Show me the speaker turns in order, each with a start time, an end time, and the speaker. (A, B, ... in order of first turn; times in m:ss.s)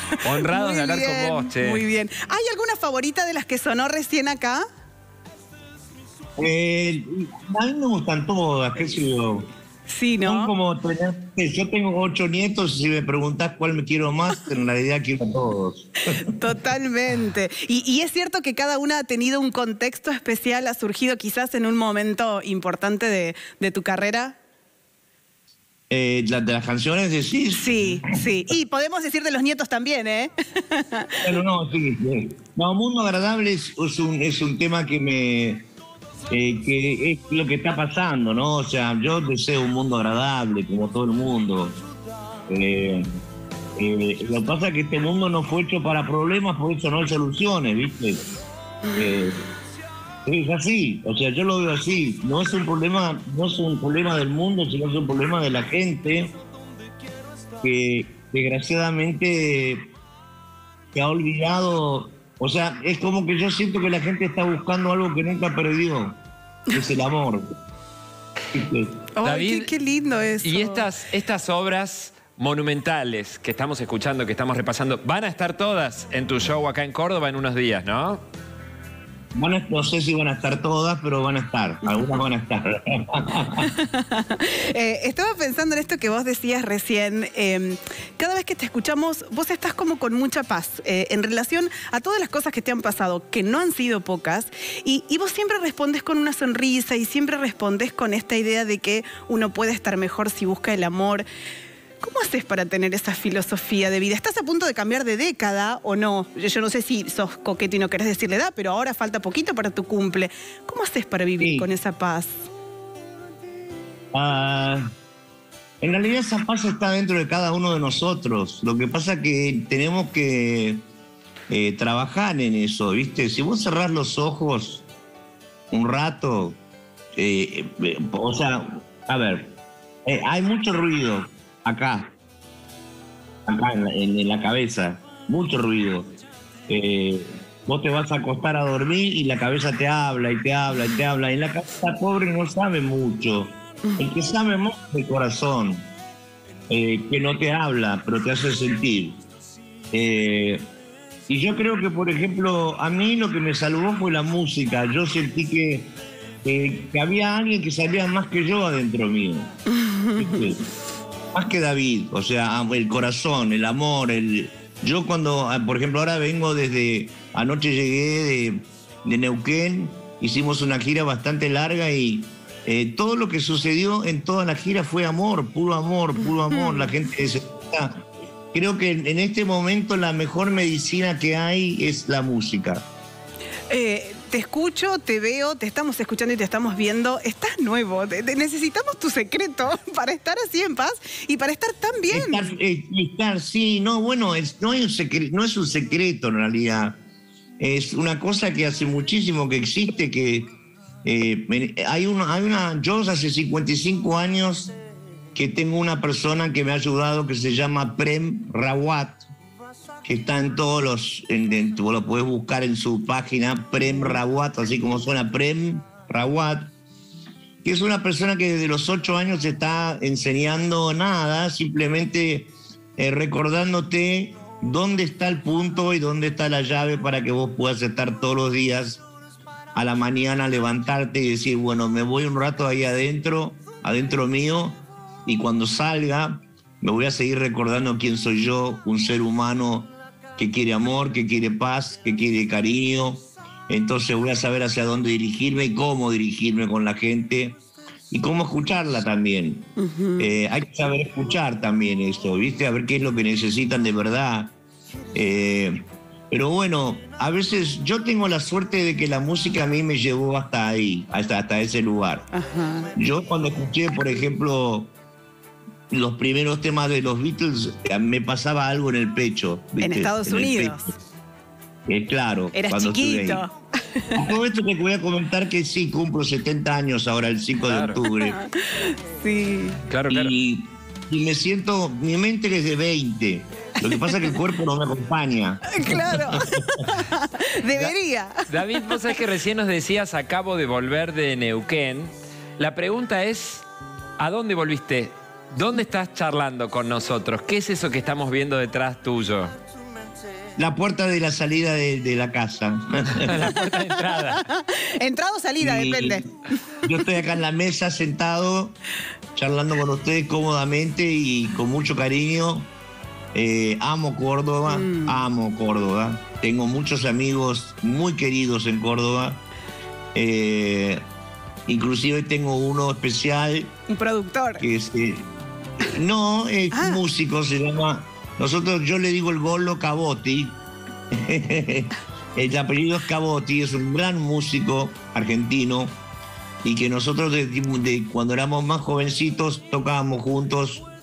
0:00.2-0:04.6 A
0:00.2-0:01.8 B
0:06.4-0:09.5 C
0:09.8-0:10.5 A
0:10.2-0:15.9 C
0:16.2-0:24.4 A
0:25.9-0:28.2 C
0:27.5-0:31.2 A
0:31.2-0:35.6 C
0:36.3-0:41.8 C
0:42.5-0:43.1 C
0:43.8-0:48.2 C
0:48.8-0:49.1 A
0:49.0-0:49.4 C
0:50.2-0:56.3 C
0:57.6-0:59.9 C
1:00.9-1:06.2 C
1:06.7-1:07.4 C
1:08.5-1:09.0 C
1:09.1-1:10.8 A
1:09.2-1:09.7 B
1:10.4-1:18.2 B
1:19.4-1:23.7 C
1:21.8-1:22.2 A
1:23.5-1:41.2 A
1:42.0-1:52.3 A
1:51.4-1:51.7 C
1:54.1-1:54.8 C
1:55.8-2:00.8 C
2:01.5-2:04.8 C
2:05.7-2:06.6 C
2:07.2-2:09.5 C
2:10.0-2:12.1 C
2:13.5-2:16.1 C
2:16.7-2:25.9 C
2:26.7-2:29.2 C
2:29.9-2:30.6 C
2:31.3-2:35.9 C
2:36.4-2:39.5 C
2:39.7-2:40.4 A
2:40.2-2:40.6 C
2:41.3-3:02.8 C
2:56.5-2:56.9 A
3:03.7-3:12.5 A
3:12.1-3:17.0 C
3:17.6-3:20.5 C
3:21.0-3:24.7 C
3:25.3-3:29.2 C
3:30.0-3:36.7 C
3:37.6-3:49.0 C
3:49.7-4:07.6 C
4:08.1-4:09.7 C
4:09.8-4:10.3 A
4:10.2-4:14.5 C
4:15.1-4:22.3 C
4:22.3-4:22.9 A
4:23.0-4:24.9 C
4:25.9-4:30.9 C
4:29.8-4:31.0 A
4:31.9-4:33.4 C
4:32.5-4:34.3 A
4:34.2-4:38.4 C
4:37.6-4:38.0 B
4:38.1-4:39.8 A
4:39.9-4:40.3 B
4:40.1-4:46.9 C
4:43.8-4:44.3 A
4:45.7-4:49.1 A
4:48.5-4:53.6 B
4:54.2-4:59.5 B
5:00.6-5:03.4 C
5:03.1-5:04.4 B
5:03.6-5:06.2 A
5:05.6-5:06.2 C
5:06.8-5:08.7 C
5:09.3-5:12.7 C
5:13.3-5:19.4 C
5:14.7-5:15.2 A
5:20.1-5:21.0 C
5:21.7-5:23.7 C
5:23.9-5:24.6 A
5:24.6-5:25.3 C
5:25.9-5:30.6 C
5:26.7-5:27.0 A
5:31.1-5:36.0 C
5:36.6-5:40.8 C